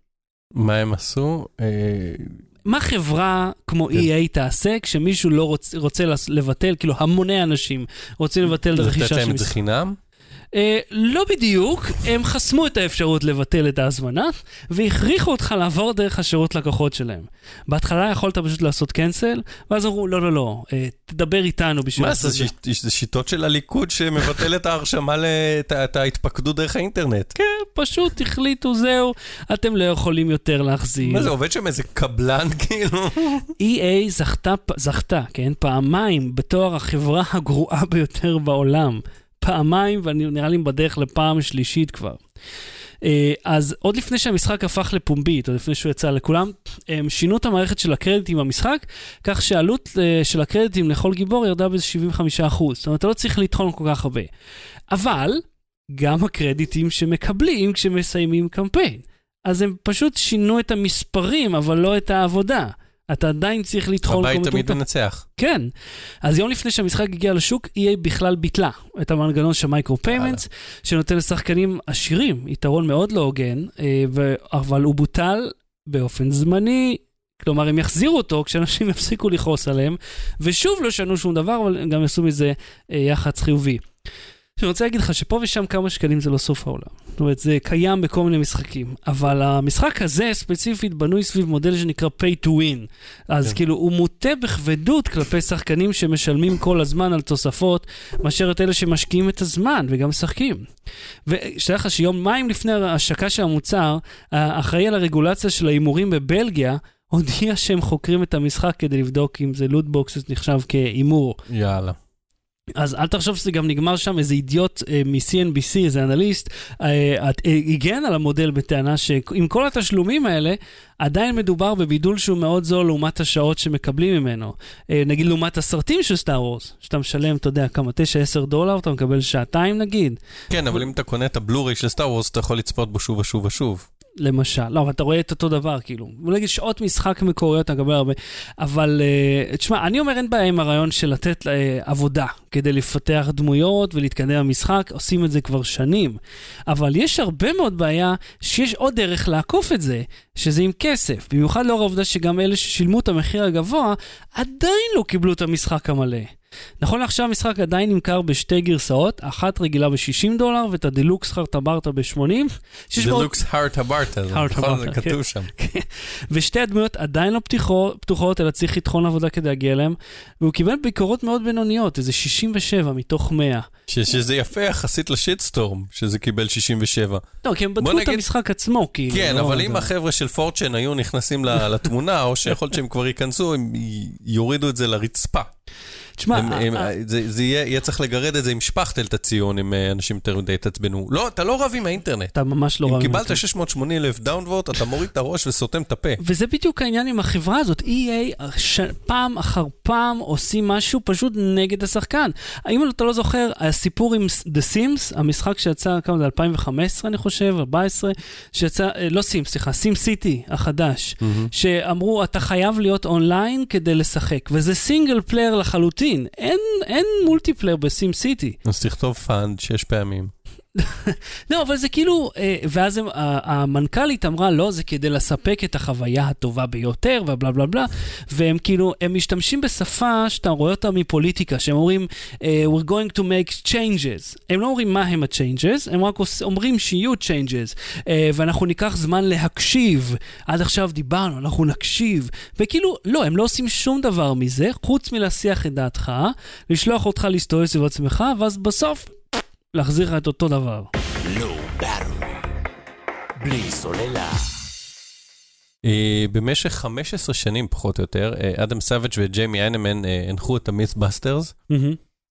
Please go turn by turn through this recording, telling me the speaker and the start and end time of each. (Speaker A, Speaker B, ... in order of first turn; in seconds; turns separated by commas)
Speaker A: 0.6-2.4, Speaker B: 2.7-9.6, Speaker A: 8.7-10.0, Speaker B: 10.5-22.5, Speaker A: 22.0-27.3, Speaker B: 27.3-31.3, Speaker A: 31.0-33.5, Speaker B: 33.6-42.2, Speaker B: 43.0-54.3, Speaker B: 54.9-55.4, Speaker B: 55.9-64.8, Speaker A: 64.0-65.2, Speaker B: 65.4-65.7, Speaker B: 66.2-83.8, Speaker A: 70.1-70.4, Speaker B: 84.6-100.7, Speaker B: 101.2-111.4, Speaker A: 111.5-112.0, Speaker B: 112.8-130.2, Speaker A: 130.5-133.9, Speaker B: 134.2-163.3, Speaker A: 163.0-165.5, Speaker B: 164.3-173.7, Speaker A: 173.9-177.2, Speaker B: 177.4-179.9, Speaker A: 177.8-178.2, Speaker A: 179.1-185.5, Speaker B: 186.2-186.9, Speaker A: 186.3-192.3, Speaker B: 192.3-193.4, Speaker A: 192.8-196.2, Speaker B: 196.2-218.6, Speaker A: 211.2-211.5, Speaker A: 218.6-220.3, Speaker B: 220.8-249.1, Speaker B: 249.7-250.9, Speaker C: 251.2-252.5, Speaker C: 253.4-254.6, Speaker A: 255.8-261.6, Speaker B: 261.7-262.0